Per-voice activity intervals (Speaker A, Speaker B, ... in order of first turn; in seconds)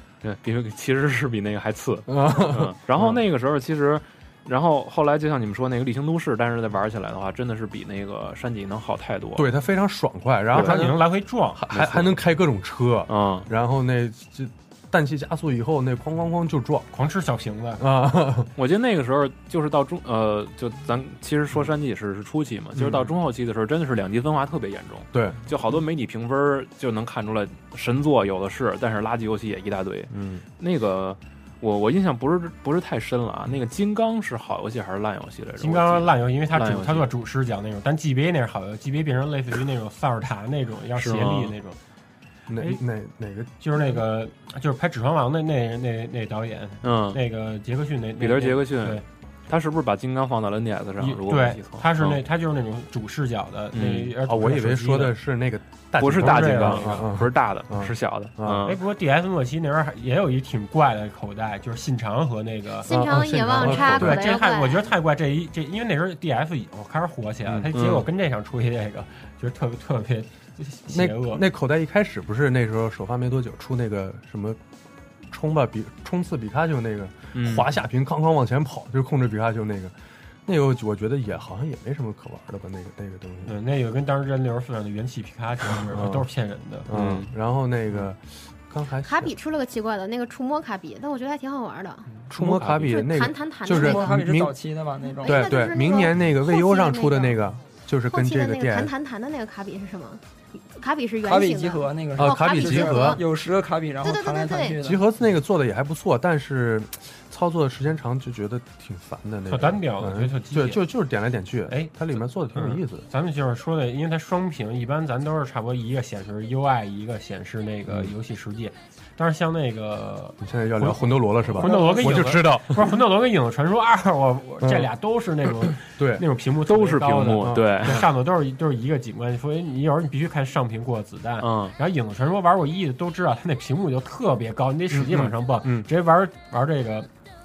Speaker A: 0.2-9.5, 10.5-10.9, 11.7-12.2, 13.1-13.5, 18.6-37.1, 40.9-41.5, 46.8-47.2, 48.2-52.2, 53.7-54.1, 56.0-58.8, 67.7-68.1, 77.3-77.7, 86.9-87.3, 92.2-93.0, 126.6-128.1, 131.4-131.8
Speaker B: 2.1-3.2, 9.3-16.9, 17.8-18.5, 22.8-23.1, 25.1-25.4, 30.1-30.4, 42.5-43.9, 54.2-58.7, 62.9-64.3, 70.9-74.6, 75.3-79.9, 80.5-83.5, 85.9-86.2, 86.9-89.3, 92.3-94.5, 95.2-98.9, 102.2-103.2, 104.8-113.0, 120.4-122.8, 124.6-124.9, 125.9-126.2, 127.4-127.9
Speaker C: 10.5-11.6, 16.9-17.9, 35.6-41.8, 43.6-49.0, 51.0-55.2, 56.1-57.1, 58.6-71.4, 83.5-86.9, 109.5-110.9, 111.7-137.1
Speaker D: 62.8-64.9, 89.0-92.1, 92.8-94.2, 95.1-97.4, 98.1-103.2, 104.0-104.8
Speaker E: 93.7-95.5, 101.2-105.0